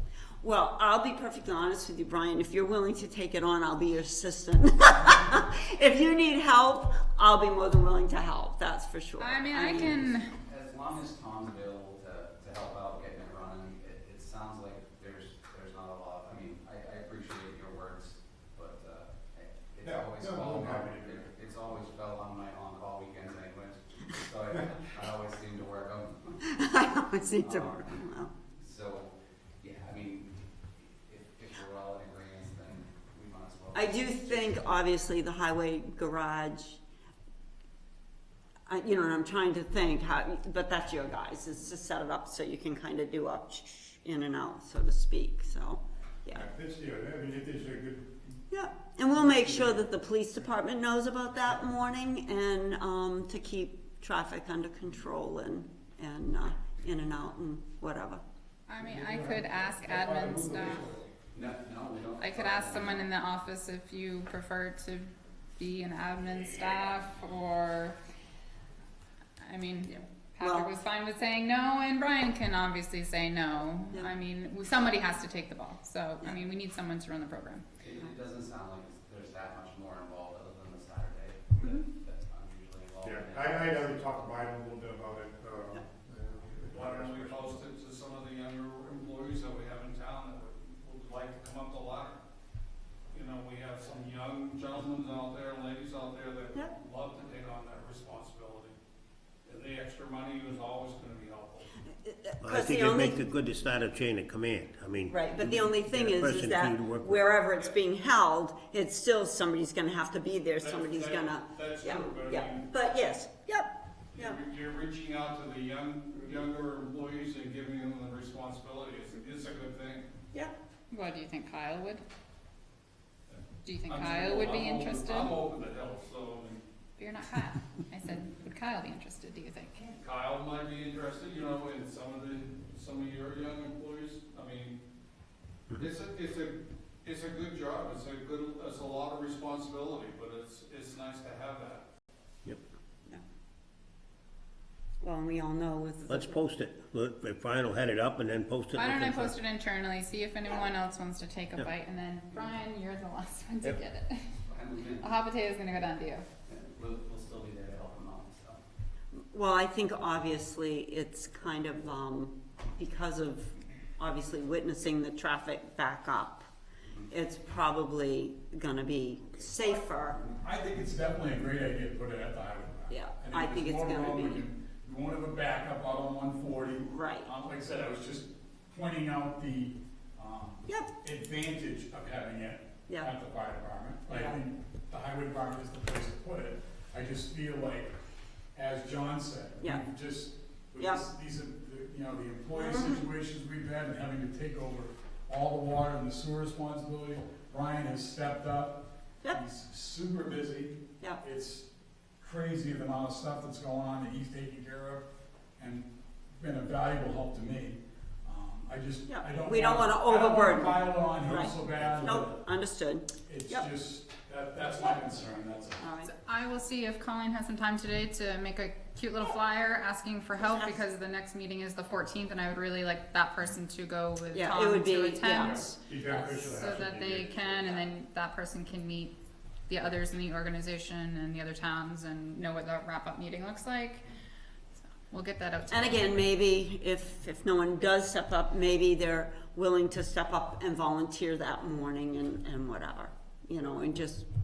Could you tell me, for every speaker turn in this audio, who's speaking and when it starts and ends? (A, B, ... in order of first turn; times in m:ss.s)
0:00.4-0:10.0 A
0:09.2-0:10.3 B
0:09.8-0:26.4 C
0:19.8-0:21.3 D
0:26.4-0:28.3 A
0:27.4-0:28.0 C
0:28.6-0:34.7 C
0:33.7-0:36.8 A
0:38.6-0:46.4 A
0:46.3-0:48.3 D
0:48.5-0:58.2 A
0:49.2-0:49.8 D
0:58.7-1:00.9 B
0:58.8-1:01.1 D
1:01.3-1:03.1 C
1:02.2-1:08.0 B
1:09.4-1:17.6 B
1:09.9-1:10.7 A
1:17.8-1:24.0 C
1:23.0-1:27.6 D
1:26.7-1:32.2 E
1:33.1-1:38.8 E
1:39.4-1:41.7 E
1:42.0-1:43.2 A
1:42.4-1:47.4 F
1:45.1-1:54.4 A
1:50.6-1:52.6 E
1:54.1-2:00.1 E
2:00.9-2:02.0 B
2:03.3-2:06.6 E
2:03.6-2:05.4 B
2:07.0-2:10.0 B
2:10.0-2:14.8 E
2:15.8-2:21.8 E
2:25.0-2:26.4 A
2:26.1-2:29.4 F
2:28.7-2:34.1 B
2:34.5-2:35.2 C
2:35.0-2:36.2 B
2:36.5-2:38.6 C
2:39.2-2:46.4 A
2:47.1-2:50.2 A
2:50.2-3:07.9 G
2:52.9-2:54.5 A
2:56.9-2:57.3 A
3:04.1-3:04.4 A
3:08.6-3:21.7 G
3:10.8-3:11.0 A
3:12.5-3:13.0 A
3:22.2-3:25.1 G
3:25.6-3:32.4 G
3:29.1-3:33.7 A
3:33.2-3:35.9 G
3:35.8-3:36.1 A
3:36.0-3:49.1 B
3:40.4-3:40.8 A
3:44.3-3:45.6 A
3:45.4-3:46.6 G
3:45.8-3:47.7 D
3:49.7-3:54.0 B
3:54.9-3:56.4 B
3:55.7-4:04.2 A